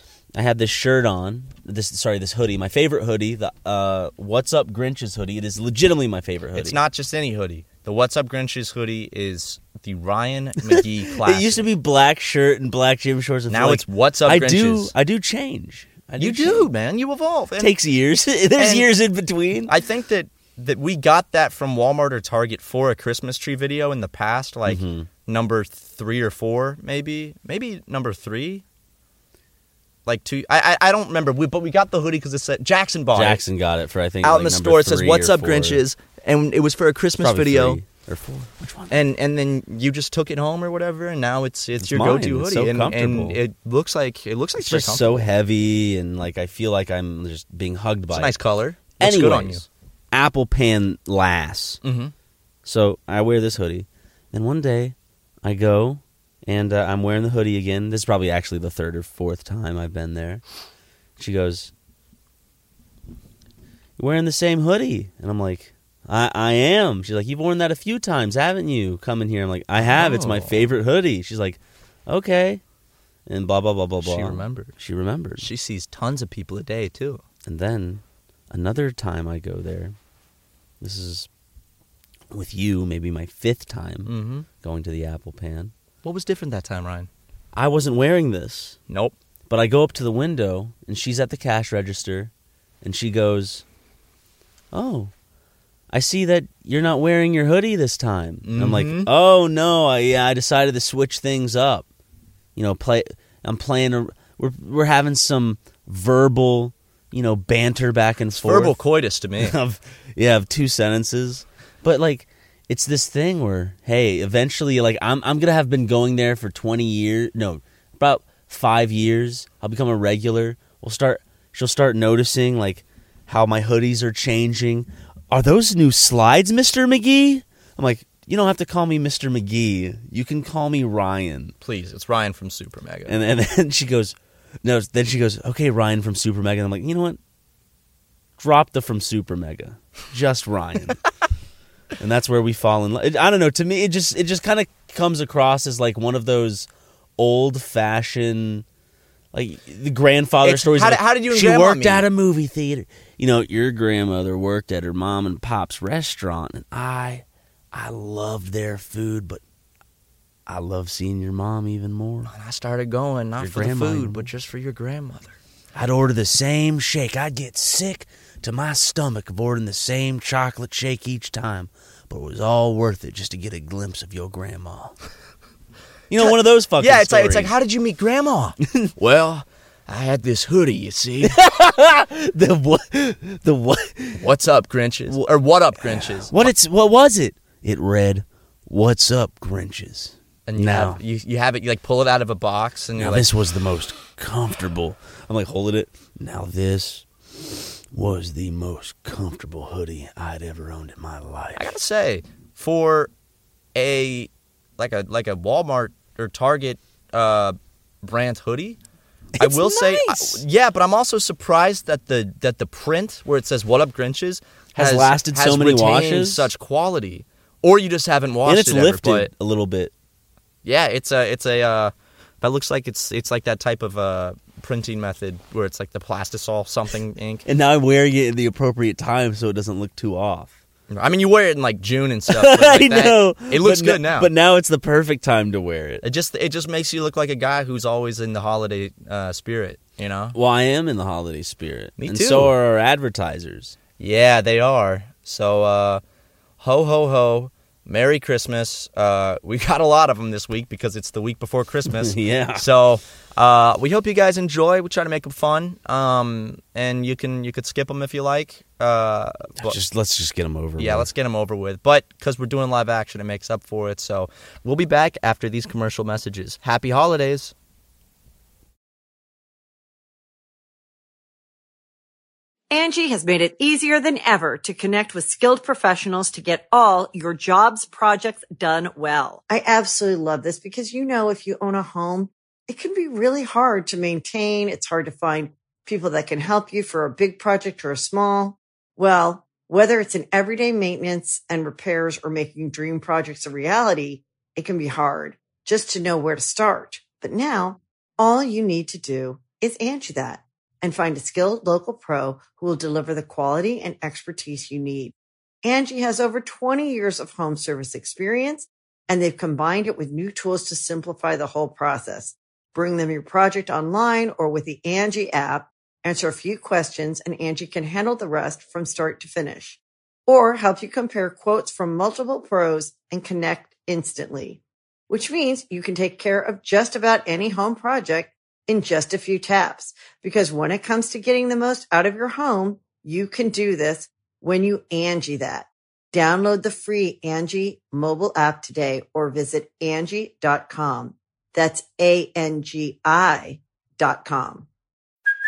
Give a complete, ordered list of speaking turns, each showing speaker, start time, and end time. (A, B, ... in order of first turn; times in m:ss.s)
0:00.4-0:06.8 A
0:06.6-0:11.7 B
0:10.6-0:16.7 A
0:13.5-0:14.9 B
0:16.2-0:17.7 B
0:17.6-0:19.7 A
0:18.6-0:18.9 B
0:19.6-0:28.6 B
0:24.6-0:25.1 A
0:30.0-0:33.4 B
0:33.1-0:35.8 A
0:34.2-0:37.8 B
0:37.2-0:39.0 A
0:38.9-0:45.3 B
0:41.8-0:43.4 A
0:44.6-0:48.4 A
0:48.1-0:49.6 B
0:49.0-0:51.8 A
0:51.8-0:52.1 B
0:52.6-1:00.4 A
1:01.2-1:01.7 A
1:04.0-1:12.6 A
1:09.8-1:10.7 B
1:13.3-1:15.5 A
1:14.0-1:14.7 B
1:15.4-1:17.2 B
1:17.4-1:20.0 A
1:20.8-1:21.3 A
1:22.3-1:25.7 A
1:24.0-1:24.5 B
1:26.0-1:27.1 B
1:27.5-1:28.8 A
1:28.9-1:29.1 B
1:29.5-1:33.6 A
1:34.7-1:35.1 A
1:35.9-1:41.9 A
1:38.4-1:39.1 B
1:42.6-1:48.8 A
1:48.3-1:49.6 B
1:49.4-2:11.5 A
2:11.6-2:13.1 B
2:13.1-2:17.2 A
2:18.4-2:21.0 A
2:22.0-2:28.6 A
2:29.3-2:39.4 A
2:30.4-2:32.0 B
2:40.5-2:42.3 A
2:42.2-2:45.4 B
2:43.4-2:44.3 A
2:45.7-2:55.0 A
2:56.1-2:57.5 A
2:56.1-3:01.4 B
3:01.2-3:04.2 A
3:04.2-3:06.5 B
3:05.8-3:11.0 A
3:10.5-3:13.3 B
3:13.0-3:21.7 A
3:21.6-3:23.1 B
3:23.7-3:28.8 B
3:29.4-3:30.4 A
3:29.4-3:39.3 B
3:34.8-3:36.5 A
3:38.4-3:39.9 A
3:40.6-3:47.4 B
3:47.4-3:50.5 A
3:50.9-3:54.3 B
3:52.3-3:56.0 A
3:56.0-4:00.4 B
4:00.3-4:03.8 A
4:02.0-4:02.5 B
4:04.0-4:06.0 B
4:06.6-4:19.8 B
4:11.9-4:12.7 A
4:19.6-4:21.1 A
4:20.8-4:27.5 B
4:32.7-5:44.6 C